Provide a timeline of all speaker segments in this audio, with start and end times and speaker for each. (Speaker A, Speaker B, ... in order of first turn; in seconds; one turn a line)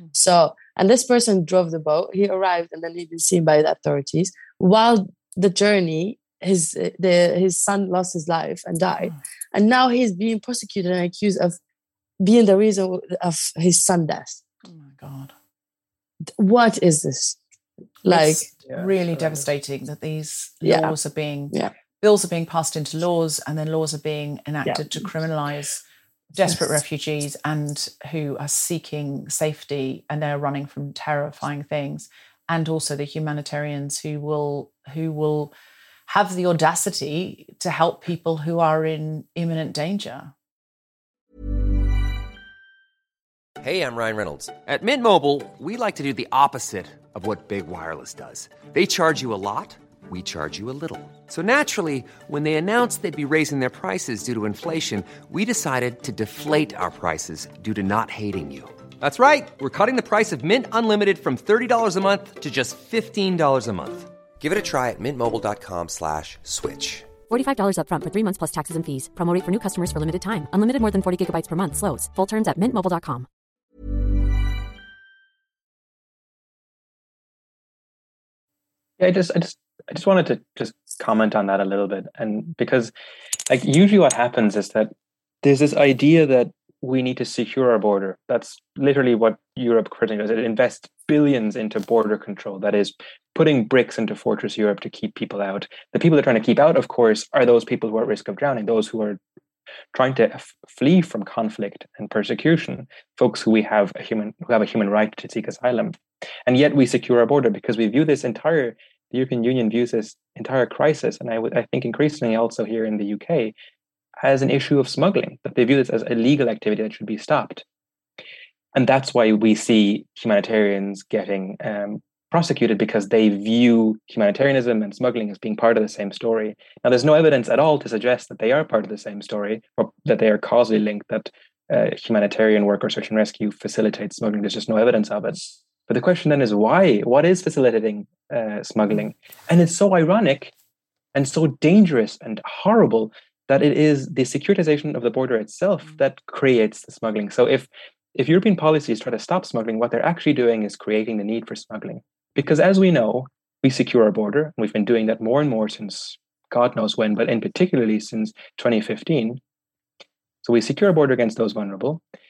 Speaker A: 0.1-11.6
Speaker A: 12.2-14.4
Speaker B: 14.7-15.3
Speaker A: 16.4-17.4
Speaker A: 18.1-18.5
Speaker B: 18.1-25.8
Speaker C: 18.7-19.4
Speaker A: 20.6-20.9
Speaker A: 24.7-25.1
Speaker B: 26.3-35.5
Speaker B: 36.1-40.3
Speaker D: 43.6-67.1
Speaker E: 67.3-73.3
Speaker C: 79.0-82.9
Speaker C: 83.5-84.9
Speaker C: 85.4-99.2
Speaker C: 99.9-113.5
Speaker C: 114.2-117.6
Speaker C: 118.8-140.5
Speaker C: 141.2-159.4
Speaker C: 160.4-162.0